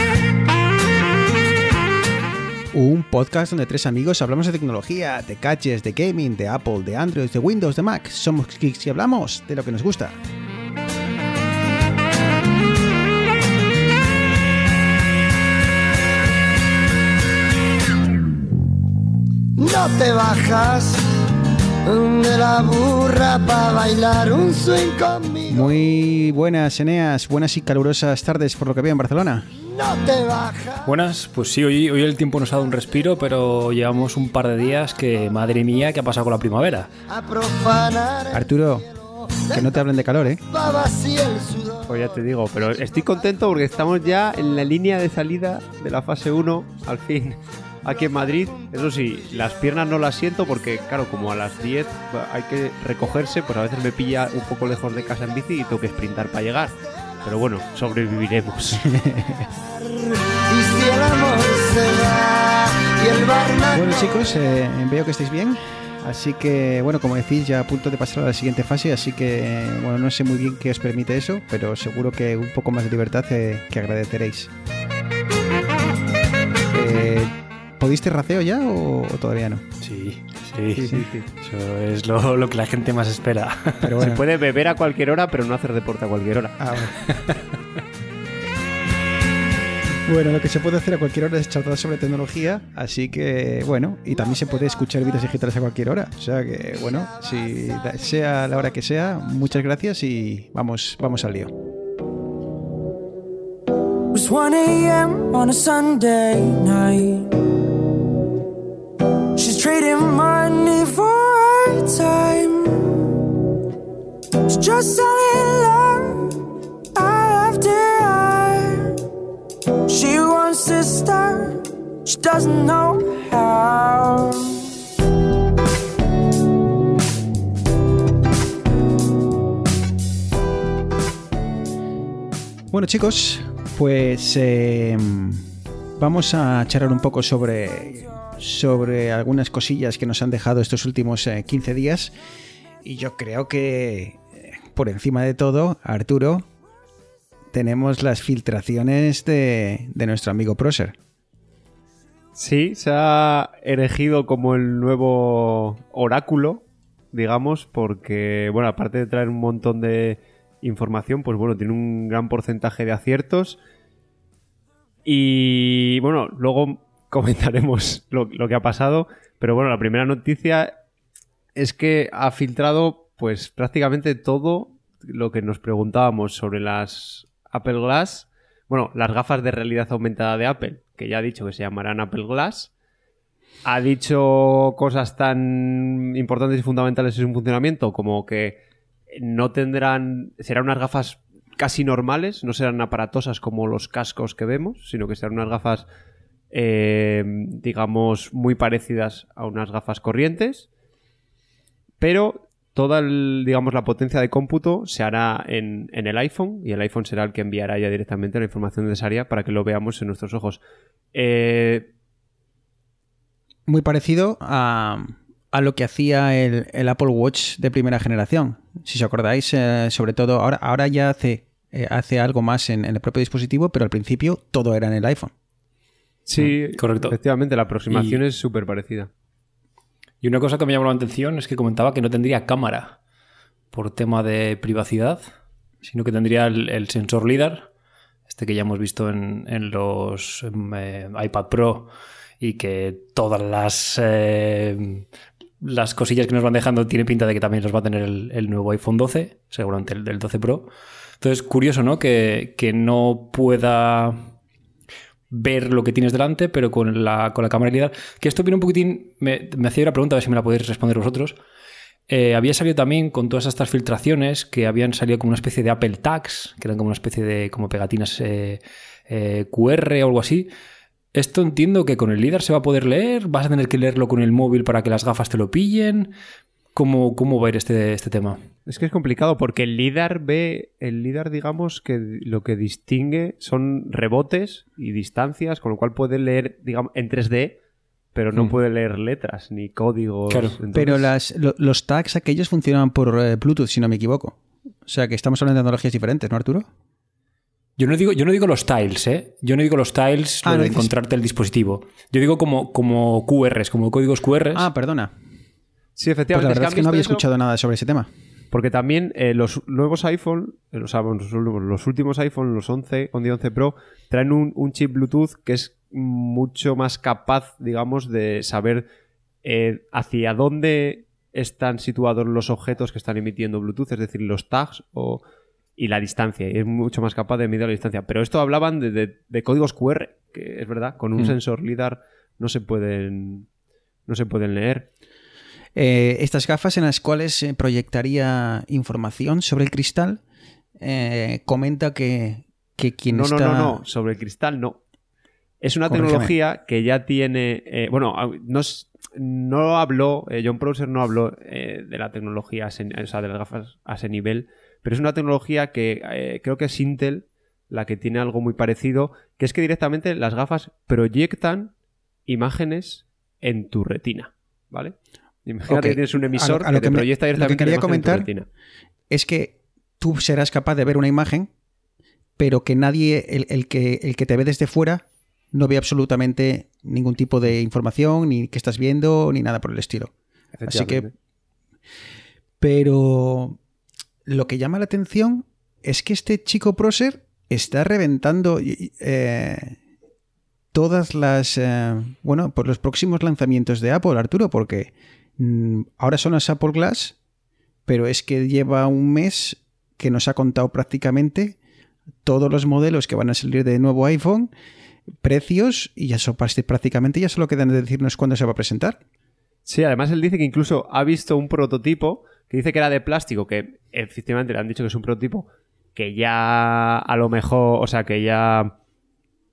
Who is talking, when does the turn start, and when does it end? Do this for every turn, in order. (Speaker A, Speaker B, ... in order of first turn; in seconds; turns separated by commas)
Speaker A: 2.7-10.2, Speaker B: 19.6-21.1, Speaker B: 21.8-25.7, Speaker A: 25.5-29.5, Speaker B: 29.6-30.9, Speaker C: 30.8-36.9, Speaker B: 37.1-39.8, Speaker A: 38.3-38.9, Speaker A: 39.5-40.4, Speaker B: 40.4-42.0, Speaker D: 41.9-58.9, Speaker A: 58.8-59.5, Speaker B: 59.6-64.3, Speaker A: 63.7-74.5, Speaker A: 76.7-79.6, Speaker C: 79.8-84.1, Speaker A: 80.8-81.0, Speaker D: 80.8-81.2, Speaker A: 83.8-84.2, Speaker D: 84.0-86.6, Speaker A: 86.6-87.0, Speaker C: 87.1-87.4, Speaker A: 90.0-101.5, Speaker E: 104.1-107.4, Speaker E: 109.3-113.2, Speaker E: 114.4-119.0, Speaker E: 119.8-124.6, Speaker A: 132.7-135.5, Speaker A: 136.0-142.1, Speaker A: 142.8-146.4, Speaker A: 147.5-150.9, Speaker D: 152.3-163.6, Speaker D: 165.0-170.7, Speaker D: 171.6-182.7, Speaker D: 183.6-188.6, Speaker D: 189.1-195.9, Speaker D: 196.5-200.7, Speaker D: 202.0-210.6, Speaker D: 211.1-211.9, Speaker A: 213.7-225.3, Speaker D: 226.2-229.1, Speaker C: 226.4-227.2, Speaker C: 227.9-228.2, Speaker C: 230.2-233.0, Speaker C: 233.7-235.2, Speaker C: 235.8-237.7, Speaker C: 238.3-245.0, Speaker C: 245.6-254.3, Speaker C: 255.3-261.4, Speaker C: 262.1-270.5, Speaker C: 271.1-276.1, Speaker C: 276.7-278.4, Speaker D: 278.6-287.6, Speaker D: 288.1-291.1, Speaker C: 290.3-290.6, Speaker A: 290.7-296.7, Speaker C: 297.8-304.7, Speaker A: 300.4-300.9, Speaker A: 304.5-305.1, Speaker D: 306.0-307.2, Speaker A: 306.3-308.1, Speaker D: 308.5-318.9, Speaker D: 319.4-325.2, Speaker D: 325.8-333.5, Speaker D: 334.1-334.9, Speaker A: 335.7-340.2, Speaker A: 340.8-343.8, Speaker D: 343.1-344.8, Speaker D: 345.6-361.7, Speaker A: 345.9-346.3, Speaker D: 362.2-368.5, Speaker A: 365.7-368.3, Speaker A: 369.1-371.5, Speaker A: 372.4-380.1, Speaker D: 380.6-381.1, Speaker A: 380.7-381.1, Speaker A: 382.6-383.6, Speaker A: 384.2-389.8, Speaker A: 390.7-397.2, Speaker A: 397.9-401.6, Speaker A: 402.2-404.5, Speaker A: 405.2-409.0, Speaker D: 409.6-418.8